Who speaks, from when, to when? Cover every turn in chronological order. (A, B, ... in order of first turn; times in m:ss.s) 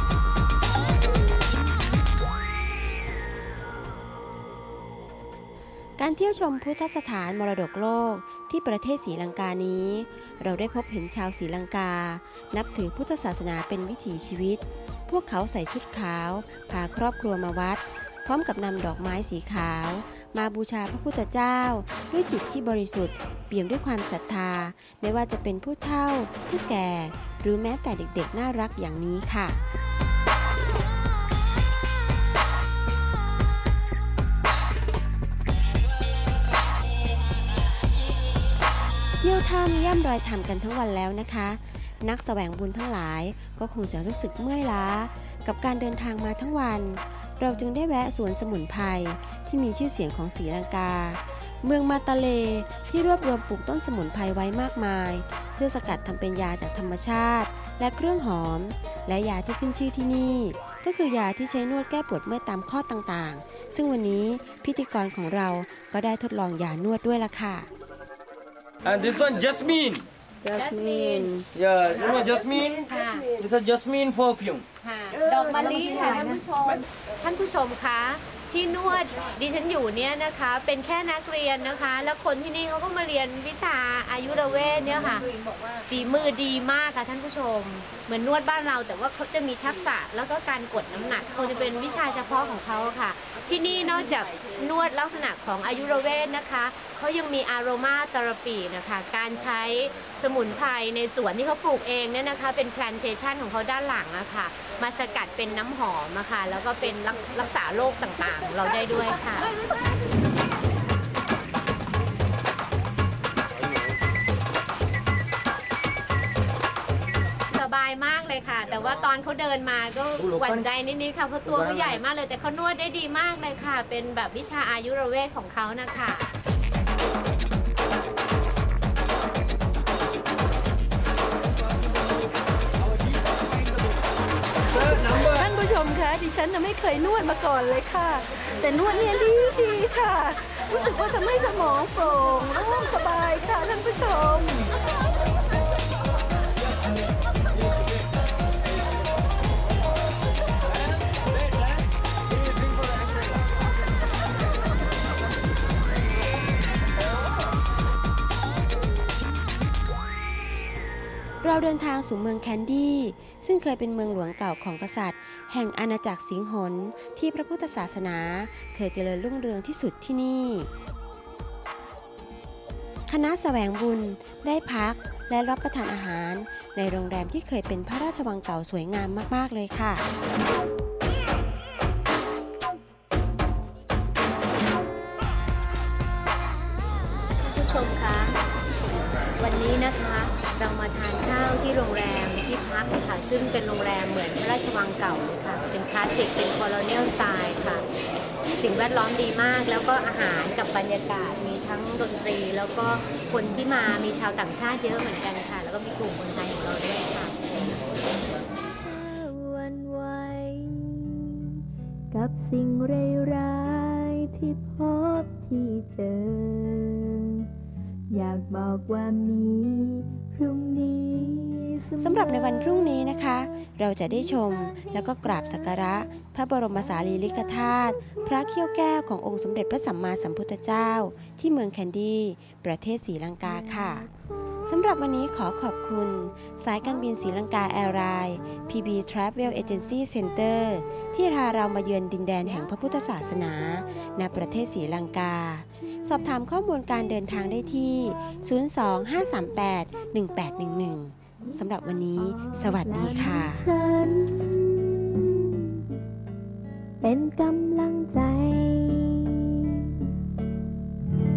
0:06.0-0:29.6 A
0:39.2-1:07.7 A
1:08.8-1:10.0 B
1:10.4-1:11.5 A
1:10.5-1:11.3 C
1:11.6-1:12.8 B
1:12.0-1:13.3 C
1:13.3-1:14.6 B
1:14.8-1:49.5 C
1:57.5-2:06.3 C
2:00.2-2:00.6 B
2:01.5-2:02.0 B
2:14.6-2:24.7 D
2:41.4-2:50.7 A
2:53.1-3:00.0 A
3:07.4-3:08.4 C
3:09.4-3:17.9 C
3:18.5-3:27.4 C
3:28.8-3:37.5 E
3:38.1-3:42.9 E
3:42.0-3:54.1 A
3:54.7-4:13.7 A
4:12.2-4:15.8 E
4:17.0-4:19.9 E